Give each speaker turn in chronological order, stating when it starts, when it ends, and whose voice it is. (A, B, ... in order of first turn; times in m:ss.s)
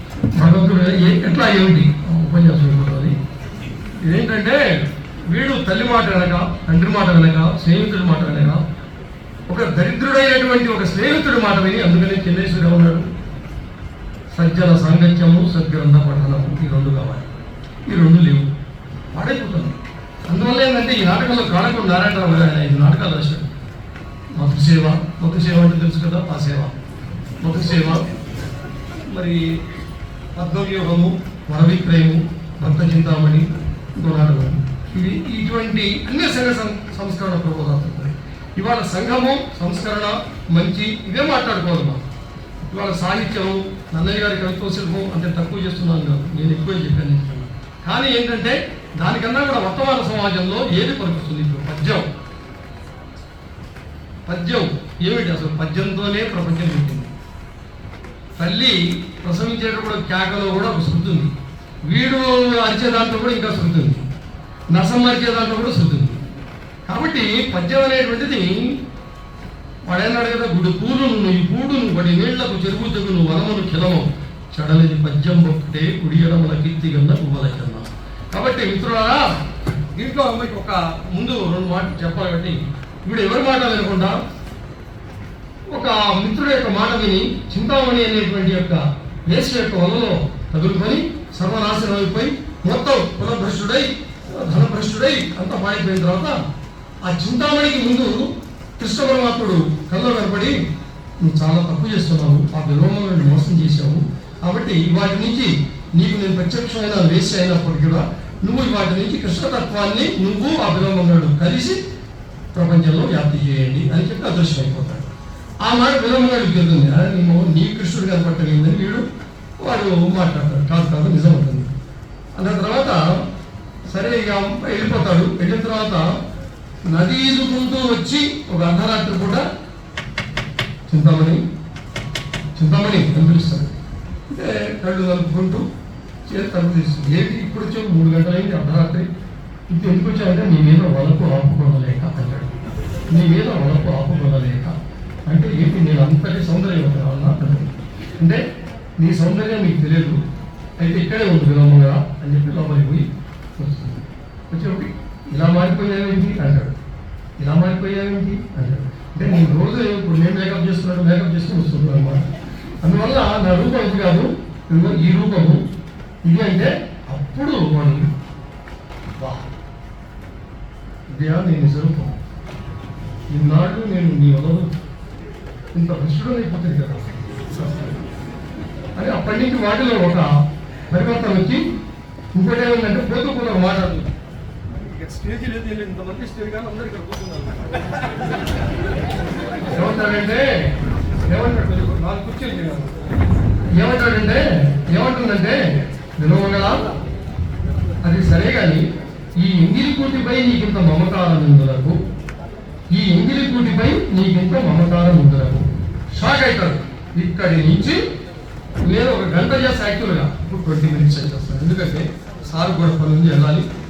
0:00.4-0:03.2 A
0:04.0-0:08.6 A
0:09.5-0:13.1 A
0:14.3-0:17.2 A
0:17.9-0:18.5 A
0:19.1-0:19.8 A
0:20.3-0:23.5 A
0:24.4-0:26.8 A
0:27.4-0:28.0 A
0:29.1-0:29.4 A
0:30.4-0:42.0 A
0:42.6-0:52.1 A
0:54.3-0:57.1 A
0:58.4-1:01.3 A
1:01.9-1:04.0 A
1:04.7-1:06.2 A
1:06.9-1:08.8 A
1:09.9-1:19.3 A
1:19.9-1:24.2 A
1:25.7-1:36.4 A
1:37.0-1:40.6 A
1:41.2-1:51.8 A
1:52.5-1:55.1 A
1:55.6-1:59.1 A
1:59.6-2:01.7 A
2:02.4-2:03.2 A
2:03.8-2:06.1 A
2:06.9-2:09.4 A
2:10.9-2:11.4 A
2:12.6-2:13.7 A
2:14.3-2:15.7 A
2:16.3-2:19.1 A
2:19.7-2:22.5 A
2:23.1-2:28.4 A
2:29.0-2:30.2 A
2:30.8-2:36.8 A
2:37.4-2:42.2 A
2:42.8-2:45.6 A
2:46.2-2:48.1 A
2:49.2-2:49.5 A
2:51.2-2:52.2 A
2:53.3-2:54.7 A
2:55.8-2:57.9 A
2:59.0-3:00.3 A
3:00.9-3:01.6 A
3:02.3-3:04.2 A
3:04.8-3:07.8 A
3:09.7-3:10.7 A
3:11.3-3:12.9 A
3:13.8-3:16.9 A
3:18.0-3:18.8 A
3:19.4-3:22.0 A
3:22.9-3:28.0 A
3:28.8-3:33.7 A